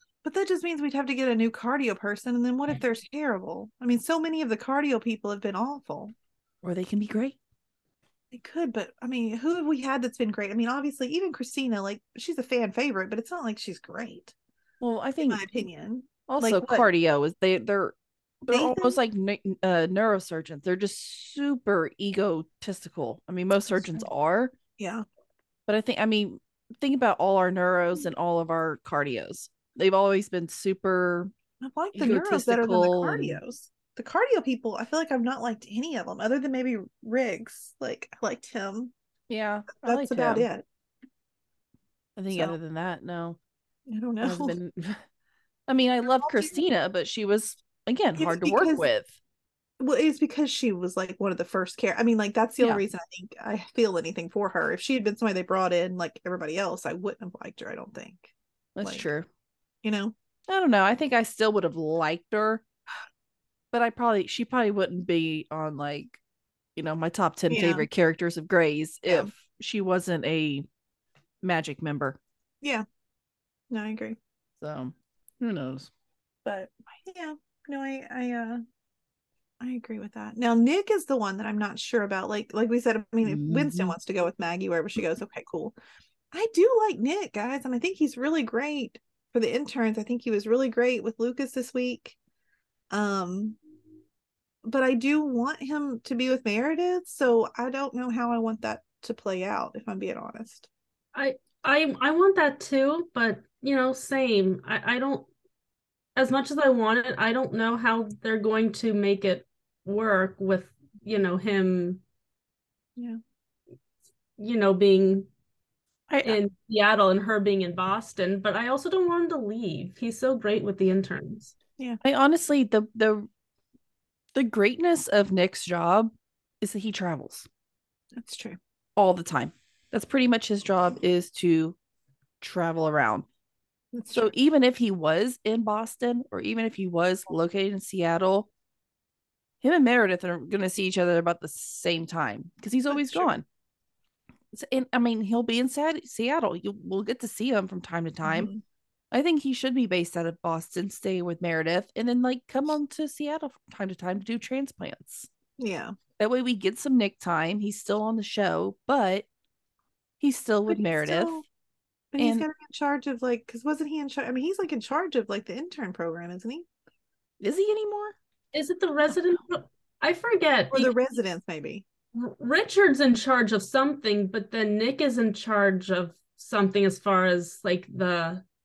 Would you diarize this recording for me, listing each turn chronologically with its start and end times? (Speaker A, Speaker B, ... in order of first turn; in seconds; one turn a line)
Speaker A: 0.2-6.1
Speaker B: 6.6-7.4
Speaker A: 8.3-14.3
Speaker B: 14.8-15.4
Speaker A: 15.2-16.9
Speaker B: 16.3-24.5
Speaker A: 18.5-19.0
Speaker A: 23.7-24.1
Speaker A: 24.8-25.0
Speaker B: 25.7-31.3
Speaker A: 31.6-38.9
Speaker B: 31.9-33.4
Speaker B: 39.3-40.5
Speaker A: 39.8-40.6
Speaker B: 42.2-43.4
Speaker A: 42.3-42.6
Speaker A: 43.9-44.6
Speaker B: 44.2-45.0
Speaker B: 45.7-49.1
Speaker A: 46.2-46.6
Speaker A: 48.2-48.9
Speaker A: 49.8-59.0
Speaker B: 58.8-59.3
Speaker A: 59.8-60.1
Speaker B: 60.5-62.6
Speaker B: 63.7-66.2
Speaker B: 66.8-70.7
Speaker A: 67.5-67.9
Speaker B: 71.4-72.2
Speaker A: 73.7-74.2
Speaker B: 74.6-75.9
Speaker A: 76.5-78.6
Speaker A: 79.6-85.7
Speaker B: 83.2-84.0
Speaker A: 86.3-92.2
Speaker A: 92.9-93.6
Speaker A: 94.6-100.7
Speaker C: 101.1-105.3
Speaker C: 106.2-112.0
Speaker C: 114.4-115.3
Speaker B: 116.1-116.4
Speaker C: 116.2-121.5
Speaker B: 122.0-123.3
Speaker B: 124.3-127.5
Speaker A: 128.2-128.6
Speaker B: 128.9-131.8
Speaker B: 132.4-133.3
Speaker A: 133.9-134.3
Speaker B: 134.1-138.5
Speaker B: 139.6-143.4
Speaker A: 142.9-143.3
Speaker B: 144.5-148.5
Speaker A: 148.2-148.6
Speaker B: 149.1-155.3
Speaker A: 155.6-155.9
Speaker B: 156.2-159.3
Speaker B: 160.2-161.4
Speaker A: 160.7-161.4
Speaker A: 162.1-166.7
Speaker B: 162.2-162.5
Speaker B: 167.4-168.2
Speaker C: 168.5-170.9
Speaker A: 170.7-171.8
Speaker C: 172.1-178.4